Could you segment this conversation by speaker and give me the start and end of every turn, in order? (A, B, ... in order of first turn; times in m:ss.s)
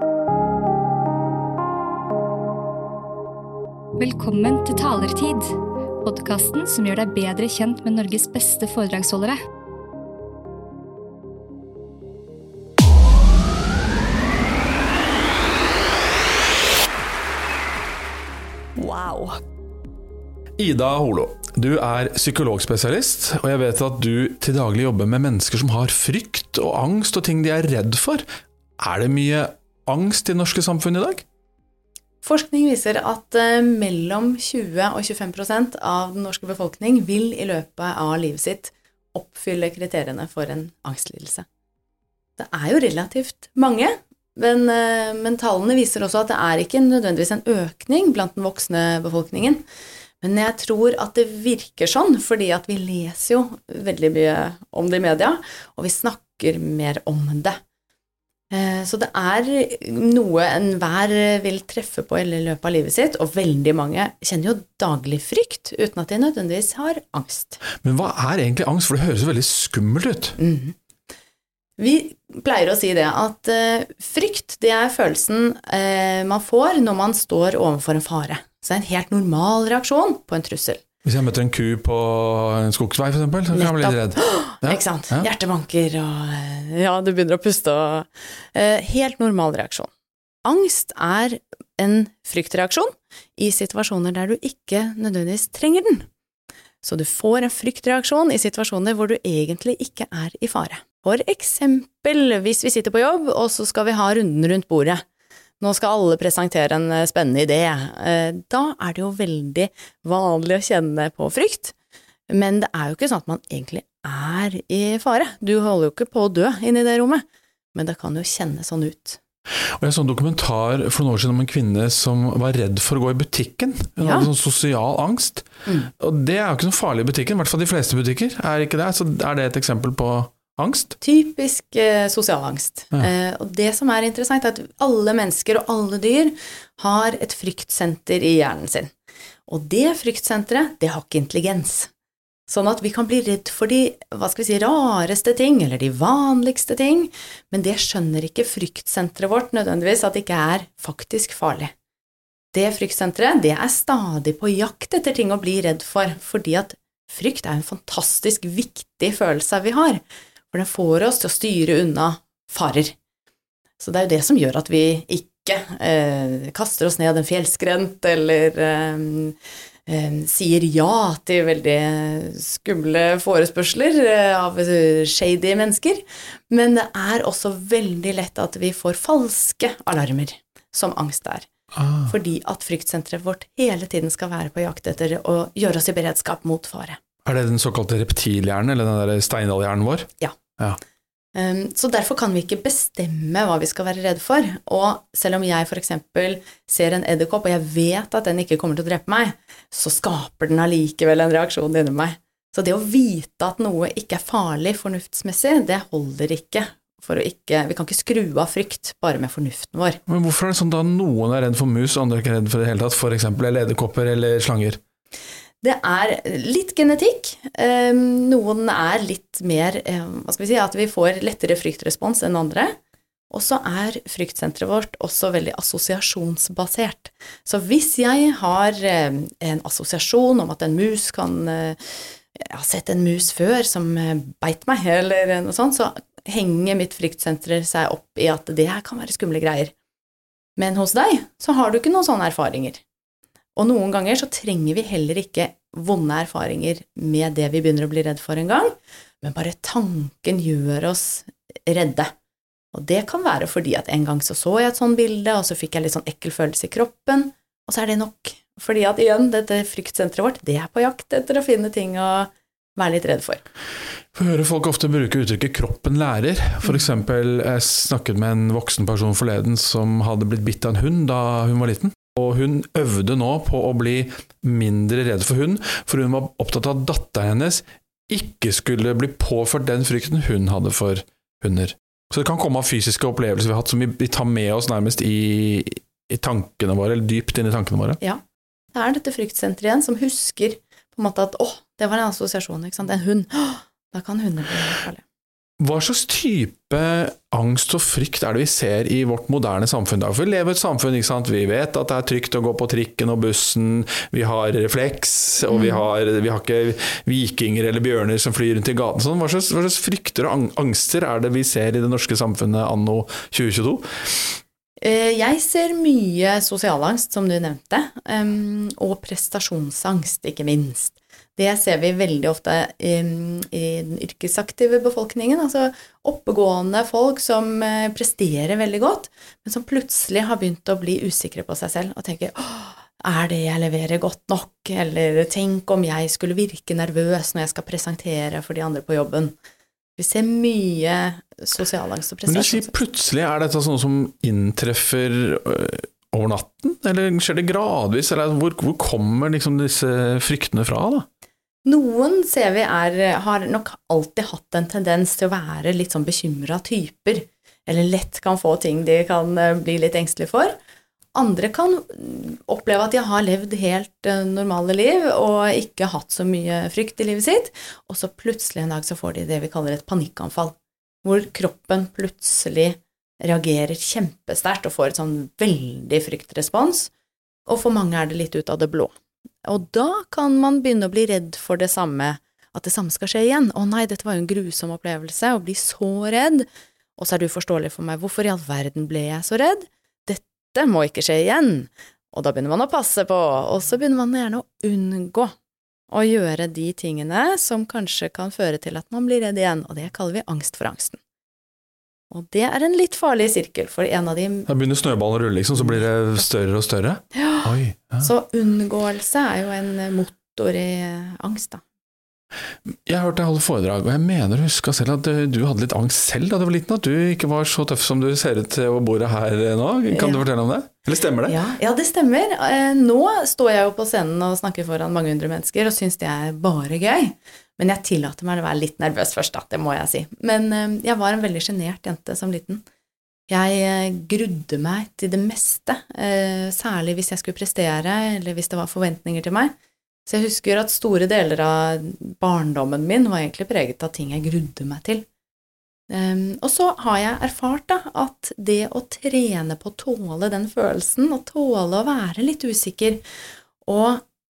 0:04.0-0:09.4 A
0:18.8-0:19.4 A
0:20.6-0:28.2 B
0:28.8-0:31.2 B
0:32.2-0:41.5 C
0:42.4-0:49.6 C
0:50.2-0:57.6 C
0:58.5-1:07.6 C
1:07.8-1:10.4 B
1:10.4-1:10.8 C
1:11.8-1:20.8 C
1:21.0-1:25.3 B
1:23.5-1:29.9 C
1:30.4-1:36.1 C
1:36.8-1:45.0 C
1:45.6-1:51.8 C
1:52.3-1:59.2 C
1:59.7-2:11.0 B
2:04.0-2:04.3 C
2:05.7-2:05.9 C
2:11.0-2:18.9 C
2:19.5-2:21.9 C
2:22.5-2:31.7 C
2:32.5-2:43.0 C
2:43.8-2:49.4 C
2:49.9-3:01.5 C
3:01.8-3:02.1 B
3:02.0-3:07.0 C
3:07.2-3:10.8 B
3:11.4-3:30.0 C
3:30.1-3:34.8 B
3:35.6-3:42.8 C
3:43.3-3:59.7 C
4:00.6-4:02.8 C
4:03.6-4:12.1 C
4:12.7-4:23.4 C
4:24.1-4:48.0 B
4:48.7-4:55.0 C
4:55.6-5:14.4 B
5:05.5-5:05.8 C
5:14.8-5:39.3 C
5:40.0-5:42.7 C
5:42.3-5:51.1 B
5:51.6-6:00.6 C
6:01.2-6:16.9 C
6:17.5-6:26.5 C
6:27.0-6:35.4 C
6:35.9-6:41.0 C
6:42.1-6:44.5 C
6:44.5-6:48.1 B
6:47.1-6:51.6 C
6:52.7-7:01.4 B
6:59.9-7:00.2 C
7:01.3-7:12.6 C
7:13.3-7:19.5 C
7:20.1-7:25.1 C
7:25.9-7:33.0 C
7:33.6-7:34.0 C